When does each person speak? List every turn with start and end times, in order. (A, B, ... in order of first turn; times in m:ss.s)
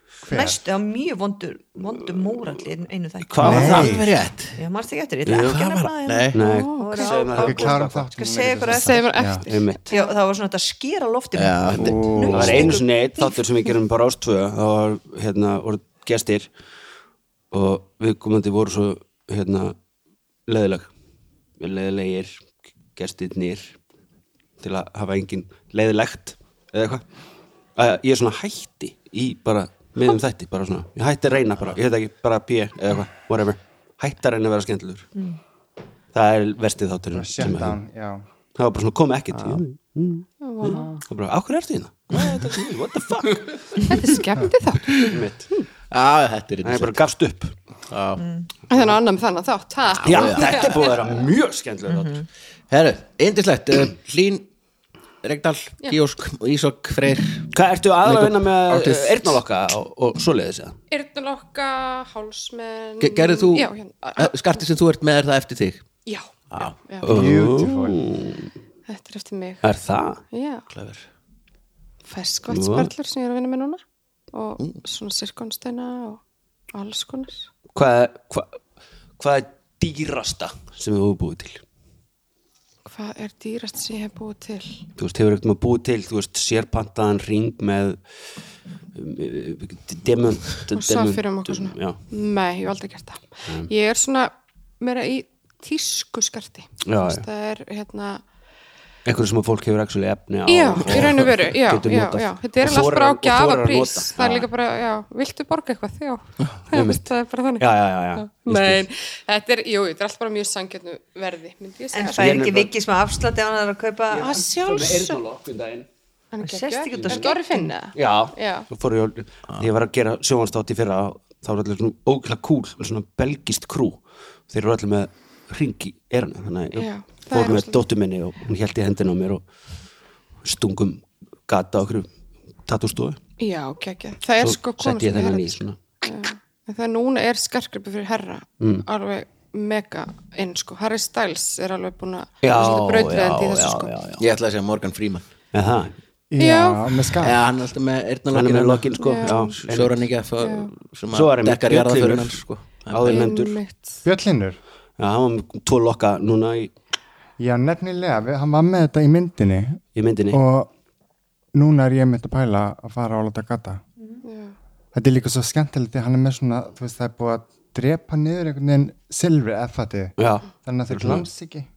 0:00.2-0:00.6 A
0:00.3-0:03.9 B
0:03.2-0:04.0 C
0:03.4-0:04.1 A
0:03.4-0:04.6 D
0:04.6-0:09.1 B
0:05.2-0:05.6 C
0:05.3-0:06.4 D
0:06.3-0:08.1 C
0:06.4-0:07.1 E
0:07.4-0:09.4 A
0:08.7-0:10.1 E
0:09.4-0:10.0 C
0:09.9-0:13.3 B
0:11.3-0:12.7 D
0:11.7-0:12.7 A
0:12.3-0:16.5 C
0:17.5-0:19.8 C
0:20.5-0:20.9 C
0:21.6-0:22.4 C
0:23.0-0:23.8 C
0:24.6-0:27.0 C
0:27.8-0:35.1 C
0:36.1-0:37.8 C
0:37.1-0:38.2 A
0:38.5-0:44.1 C
0:40.4-0:40.9 E
0:43.9-0:45.1 E
0:45.1-0:45.5 C
0:45.9-0:47.0 D
0:46.6-0:47.5 C
0:47.9-0:48.2 D
0:48.2-0:48.5 B
0:48.7-0:51.1 E
0:50.0-0:50.8 D
0:50.0-0:52.2 C
0:51.9-0:52.2 B
0:52.7-0:54.5 D
0:55.2-0:57.5 D
0:57.5-1:00.8 C
0:58.0-0:59.4 D
1:00.9-1:04.4 E
1:03.0-1:05.8 D
1:06.0-1:07.1 E
1:07.0-1:08.5 C
1:07.0-1:08.1 A
1:08.9-1:09.6 E
1:09.6-1:10.2 C
1:10.3-1:10.7 E
1:10.7-1:11.0 D
1:12.1-1:13.8 E
1:12.5-1:12.9 C
1:14.3-1:16.2 E
1:16.7-1:17.5 E
1:17.7-1:18.6 C
1:19.2-1:21.6 C
1:22.8-1:24.8 E
1:25.0-1:28.1 C
1:28.9-1:32.0 C
1:30.7-1:38.2 E
1:36.8-1:37.2 C
1:39.0-1:44.5 C
1:40.4-1:52.4 E
1:46.7-1:48.8 C
1:51.9-1:54.4 B
1:52.2-1:52.7 C
1:54.1-1:55.9 C
1:54.2-1:55.2 E
1:56.3-1:58.7 E
1:56.4-1:57.7 B
1:57.0-1:57.3 C
1:57.9-2:09.4 C
2:06.8-2:07.8 E
2:10.4-2:12.1 C
2:12.6-2:13.2 C
2:13.4-2:24.0 E
2:14.4-2:15.8 C
2:18.6-2:18.8 C
2:22.4-2:24.2 C
2:22.5-2:25.2 D
2:25.5-2:25.9 C
2:26.3-2:27.4 A
2:26.4-2:27.1 E
2:27.2-2:33.2 D
2:28.3-2:30.0 C
2:29.0-2:29.5 E
2:30.4-2:30.7 E
2:31.1-2:33.6 C
2:33.1-2:33.9 E
2:34.0-2:34.6 A
2:35.0-2:36.7 C
2:37.4-2:40.7 A
2:39.9-2:40.4 C
2:41.5-2:43.8 A
2:44.2-2:44.5 E
2:44.9-2:51.7 A
2:50.2-2:51.3 C